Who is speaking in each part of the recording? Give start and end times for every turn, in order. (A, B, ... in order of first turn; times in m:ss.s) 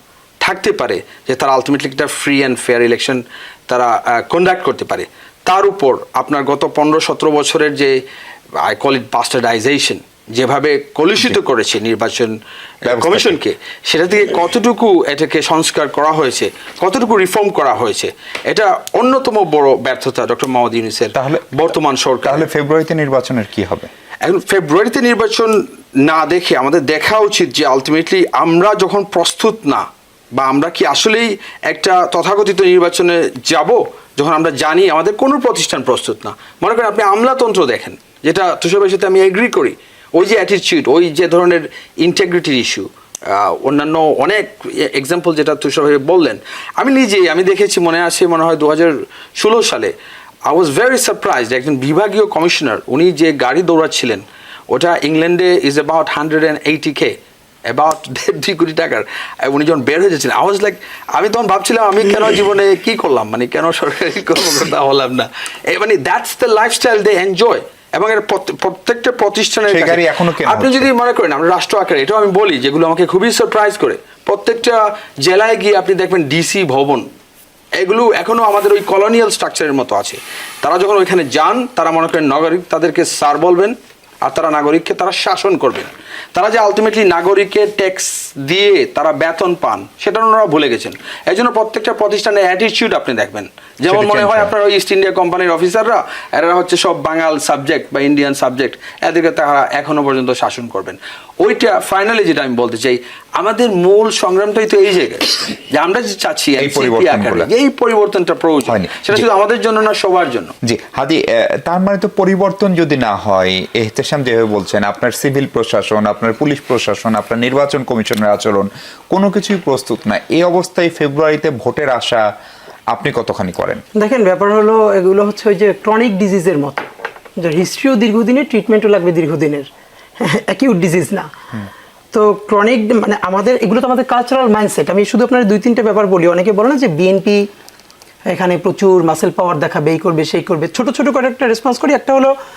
0:00.4-0:08.0 A
0:08.6-0:22.5 A
0:12.8-0:13.4 B
0:21.1-0:21.4 B
0:22.2-0:23.9 B
0:24.2-0:49.9 A
0:50.5-0:57.2 A
0:57.7-1:17.1 A
1:09.7-1:10.9 B
1:17.8-1:50.5 A
1:33.9-1:34.5 B
1:46.6-1:47.5 B
1:48.7-1:49.3 B
1:50.6-2:02.2 B
2:02.9-2:03.8 B
2:03.9-2:09.7 C
2:10.2-2:11.3 C
2:12.1-2:17.5 C
2:18.3-2:22.3 C